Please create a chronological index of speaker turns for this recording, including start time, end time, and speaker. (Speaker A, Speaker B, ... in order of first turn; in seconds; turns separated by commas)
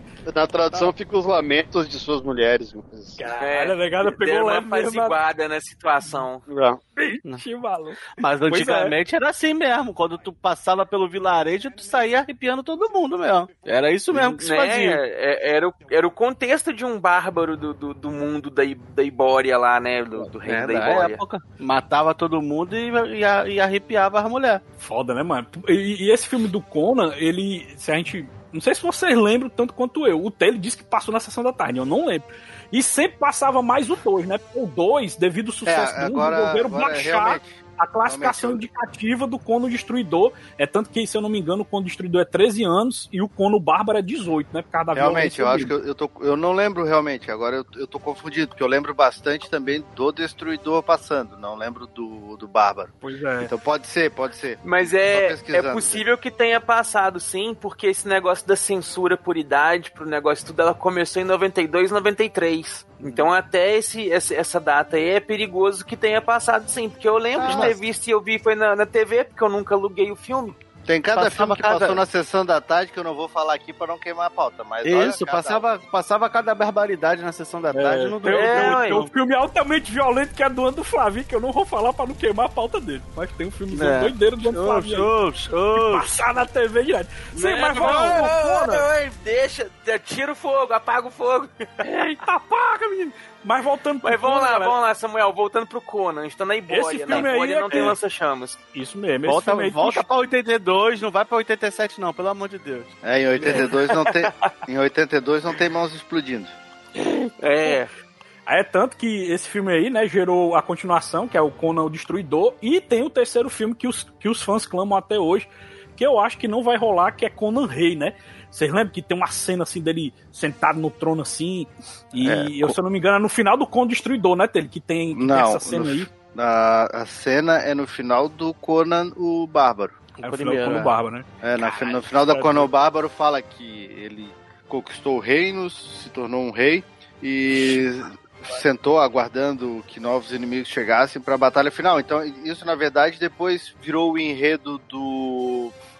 Speaker A: 0.2-3.2, Speaker B: 3.2-5.2, Speaker C: 3.4-6.4, Speaker A: 6.5-6.8, Speaker B: 7.0-8.9, Speaker D: 8.1-15.0, Speaker C: 14.4-21.2, Speaker D: 20.2-24.6, Speaker B: 24.8-45.7, Speaker E: 35.6-38.6, Speaker E: 44.9-56.0, Speaker B: 53.0-53.5, Speaker C: 54.6-70.5, Speaker B: 63.0-63.3, Speaker E: 67.4-67.7, Speaker E: 70.8-75.7, Speaker D: 71.1-72.0, Speaker D: 74.8-79.1, Speaker B: 77.7-85.1, Speaker C: 78.3-79.0, Speaker D: 83.7-86.1, Speaker B: 85.7-88.8, Speaker C: 87.3-91.6, Speaker B: 91.8-94.7, Speaker C: 94.0-98.6, Speaker B: 96.7-98.0, Speaker D: 97.1-97.9, Speaker B: 98.7-100.0, Speaker D: 99.2-102.9, Speaker E: 103.0-106.5, Speaker C: 103.5-104.5, Speaker C: 107.4-107.9, Speaker B: 108.5-126.1, Speaker E: 122.2-122.7, Speaker E: 125.1-130.0, Speaker D: 130.2-130.9, Speaker B: 130.2-131.2, Speaker E: 131.4-145.7, Speaker B: 132.3-132.7